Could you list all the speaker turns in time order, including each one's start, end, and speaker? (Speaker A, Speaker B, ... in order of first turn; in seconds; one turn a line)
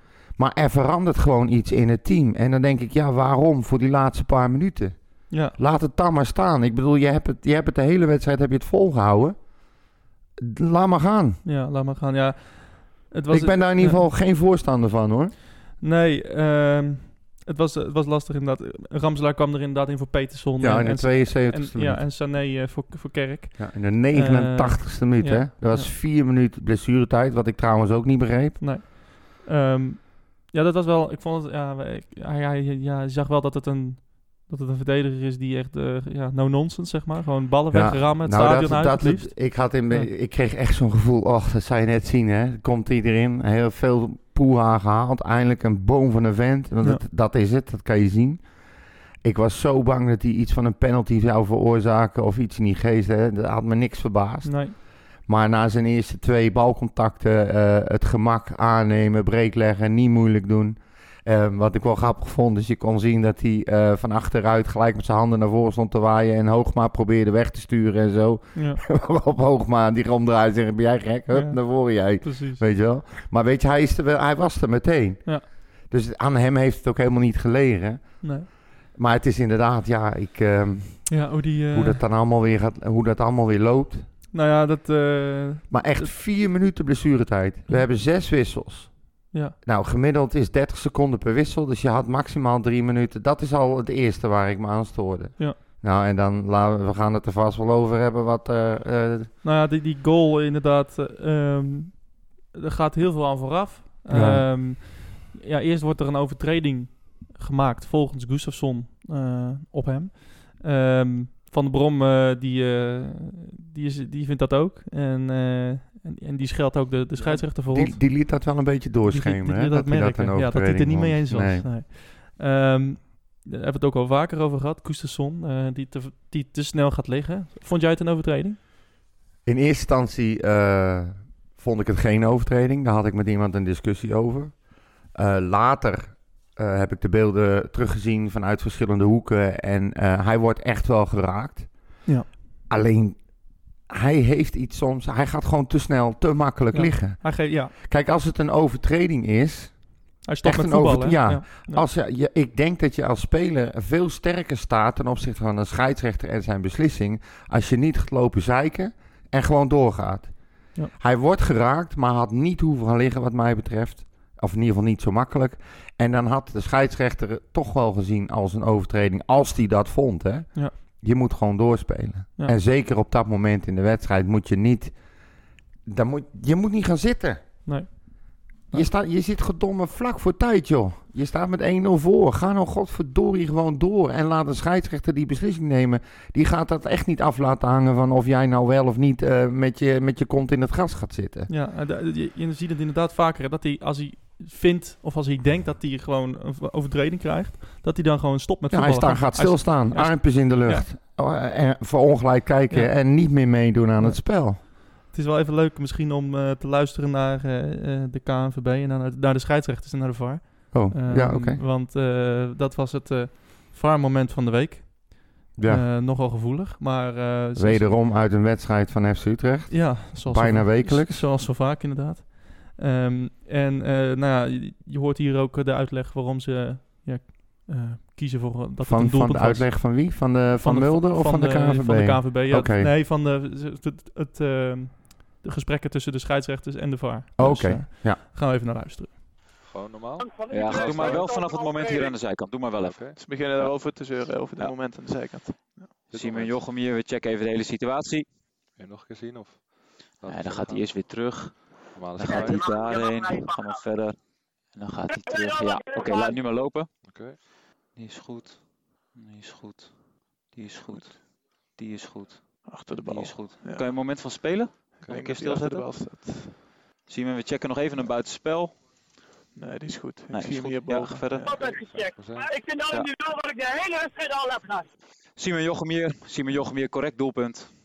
Speaker A: 0.4-5.0
Speaker B: 5.3-5.6
Speaker A: 5.5-9.4
Speaker A: 10.4-11.4
Speaker B: 11.4-14.0
Speaker A: 13.3-15.4
Speaker B: 15.8-25.9
Speaker A: 20.6-22.1
Speaker A: 23.6-28.6
Speaker B: 28.6-40.1
Speaker A: 37.7-48.4
Speaker A: 49.2-84.1
Speaker B: 54.4-54.8
Speaker B: 68.5-68.8
Speaker B: 71.3-72.6
Speaker B: 78.2-78.5
Speaker B: 81.1-82.0
Speaker B: 84.3-86.1
Speaker A: 85.7-99.3
Speaker B: 99.4-118.1
Speaker A: 104.1-104.5
Speaker A: 117.4-121.7
Speaker B: 119.0-128.6
Speaker A: 129.4-134.6
Speaker A: 135.1-141.7
Speaker A: 142.7-143.2
Speaker A: 143.9-160.3
Speaker B: 146.7-147.7
Speaker B: 150.2-151.8
Speaker A: 160.9-174.9
Speaker A: 175.9-177.4
Speaker B: 177.7-177.9
Speaker A: 178.7-191.5
Speaker B: 191.5-200.9
Speaker A: 198.7-204.6
Speaker B: 202.7-203.5
Speaker B: 204.0-217.9
Speaker A: 210.7-211.6
Speaker A: 215.6-215.9
Speaker A: 217.6-221.3
Speaker B: 219.7-239.1
Speaker A: 228.8-232.9
Speaker A: 237.4-238.2
Speaker C: 239.6-241.3
Speaker D: 240.2-242.1
Speaker E: 240.5-244.8
Speaker C: 242.8-243.3
Speaker F: 243.2-246.1
Speaker C: 246.1-246.6
Speaker E: 246.1-248.3
Speaker C: 248.8-251.0
Speaker E: 250.2-254.2
Speaker C: 251.9-253.0
Speaker D: 252.2-253.8
Speaker E: 254.7-257.3
Speaker D: 255.1-256.4
Speaker C: 257.0-257.4
Speaker E: 257.9-266.0
Speaker F: 260.9-261.2
Speaker F: 262.6-264.2
Speaker F: 264.9-266.7
Speaker C: 265.0-265.3
Speaker E: 267.1-268.8
Speaker F: 269.5-271.7
Speaker E: 270.3-271.8
Speaker D: 271.4-274.9
Speaker C: 271.6-272.5
Speaker E: 275.4-277.7